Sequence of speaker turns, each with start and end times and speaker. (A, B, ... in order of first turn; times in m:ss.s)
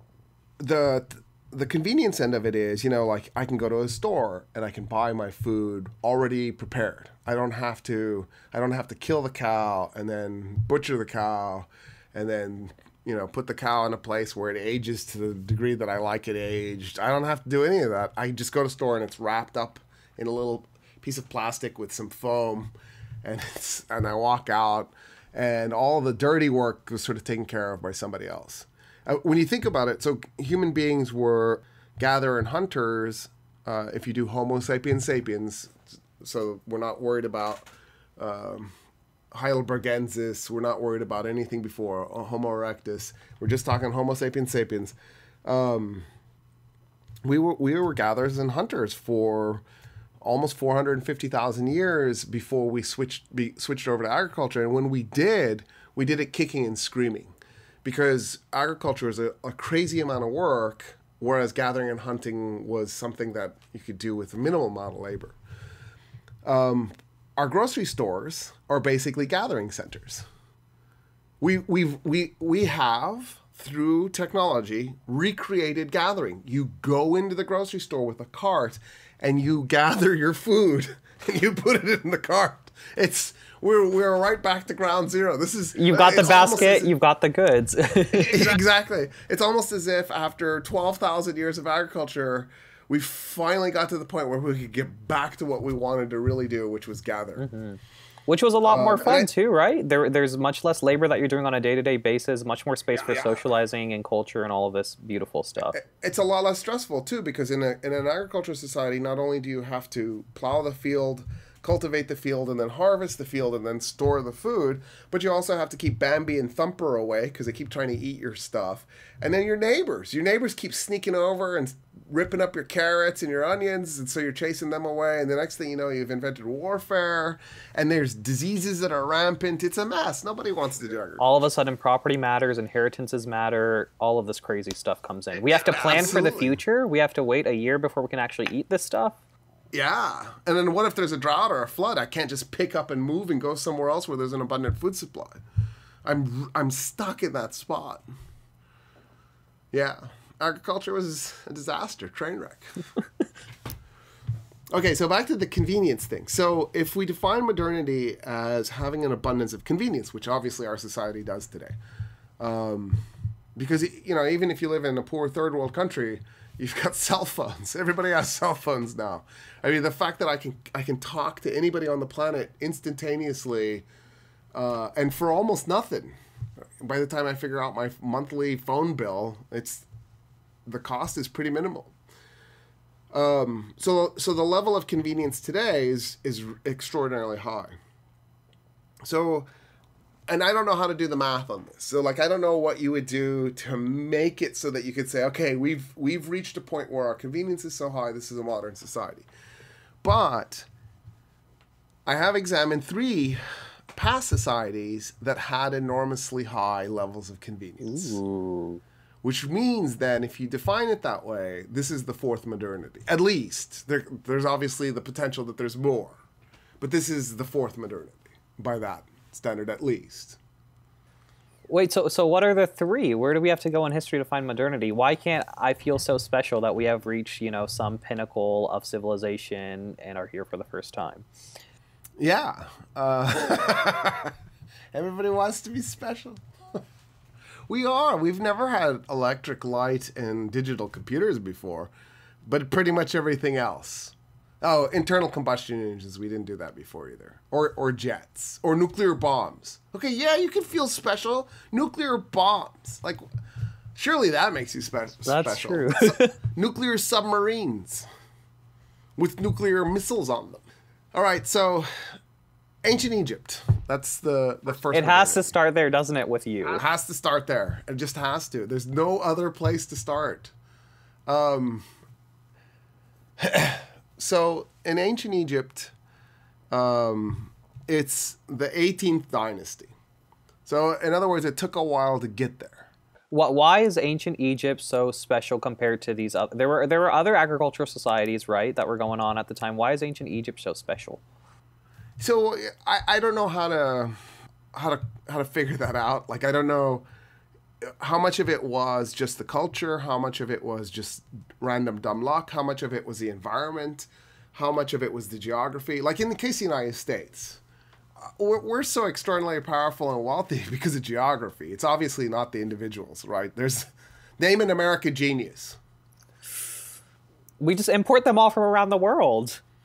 0:00.6-0:22.7 A
0:23.2-0:38.7 A
0:39.3-0:46.1 A
0:47.2-0:49.6 A
0:50.2-0:57.3 A
0:57.8-1:05.4 A
1:06.4-1:10.2 A
1:11.4-1:26.9 A
1:25.8-1:28.6 B
1:28.1-1:37.5 A
1:37.4-1:45.7 B
1:38.7-1:39.3 A
1:45.7-2:11.3 A
2:11.2-2:19.2 B
2:15.4-2:16.6 A
2:19.7-2:25.4 A
2:26.0-2:28.0 A
2:29.7-2:32.8 A
2:34.7-2:41.7 A
2:42.4-2:43.0 A
2:43.6-2:53.8 A
2:54.5-2:56.1 A
2:56.8-2:59.8 A
3:00.7-3:01.9 A
3:03.1-3:07.7 A
3:09.0-3:09.5 A
3:10.3-3:19.3 A
3:20.0-3:20.7 A
3:22.1-3:23.4 A
3:23.9-3:28.2 A
3:27.8-3:28.8 B
3:29.2-3:36.2 A
3:36.8-3:40.4 A
3:41.7-3:51.3 B
3:52.2-3:54.3 A
3:54.9-3:56.8 A
3:57.7-4:01.9 A
4:02.4-4:13.2 A
4:14.0-4:18.1 A
4:15.2-4:16.3 B
4:19.2-4:21.9 A
4:22.8-4:25.5 A
4:24.9-4:26.8 B
4:26.6-4:30.5 A
4:31.3-4:31.8 A
4:33.4-4:35.9 A
4:36.7-4:39.9 A
4:40.7-4:42.9 A
4:43.3-4:51.2 B
4:52.2-4:54.2 A
4:54.7-4:57.0 A
4:57.8-5:07.6 A
5:08.2-5:15.8 A
5:17.6-5:19.6 B